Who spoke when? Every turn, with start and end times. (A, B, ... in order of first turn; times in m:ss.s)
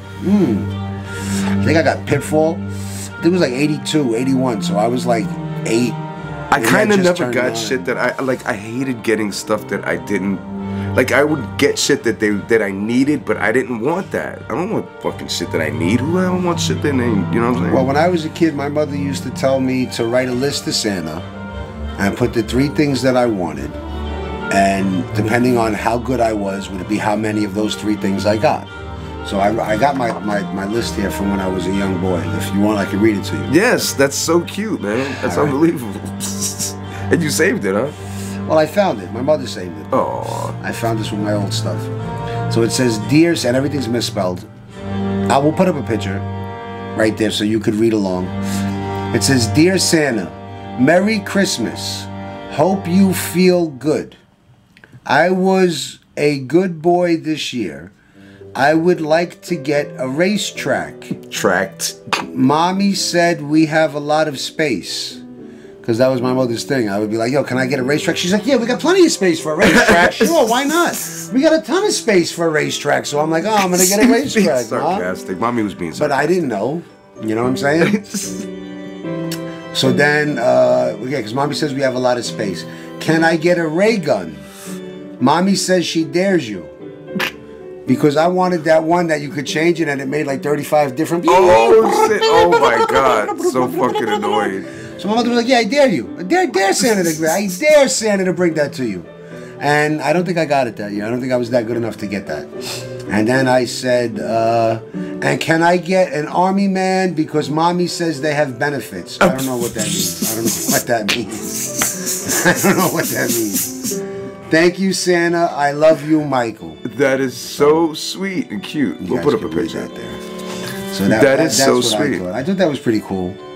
0:00.2-0:00.7 A
0:01.6-0:02.6 A
0:03.2-0:06.0 A
0:06.5-0:17.9 B
0:06.6-0:07.9 A
0:17.6-0:21.3 A
0:22.0-0:23.8 A
0:24.5-0:28.7 A
0:29.2-0:33.5 A
0:33.5-0:38.0 B
0:35.2-0:35.6 A
0:38.5-0:40.0 A
0:39.9-0:40.6 B
0:40.5-0:41.9 A
0:42.5-0:44.5 A
0:45.3-0:46.3 A
0:47.0-0:48.4 A
0:49.1-0:54.2 A
0:55.1-0:57.9 A
0:58.6-1:01.2 A
1:01.2-1:02.0 B
1:02.3-1:05.2 A
1:05.8-1:15.1 A
1:09.6-1:11.0 B
1:13.6-1:16.4 B
1:16.0-1:18.0 A
1:17.8-1:18.5 B
1:19.7-1:24.4 A
1:25.2-1:26.7 A
1:27.9-1:39.1 A
1:31.2-1:34.7 B
1:39.6-1:42.5 A
1:43.1-1:53.9 A
1:49.2-1:50.2 B
1:54.5-1:56.8 A
1:56.8-1:59.9 B
1:57.4-1:57.9 A
1:59.0-2:00.2 A
2:00.9-2:03.4 A
2:01.1-2:02.2 B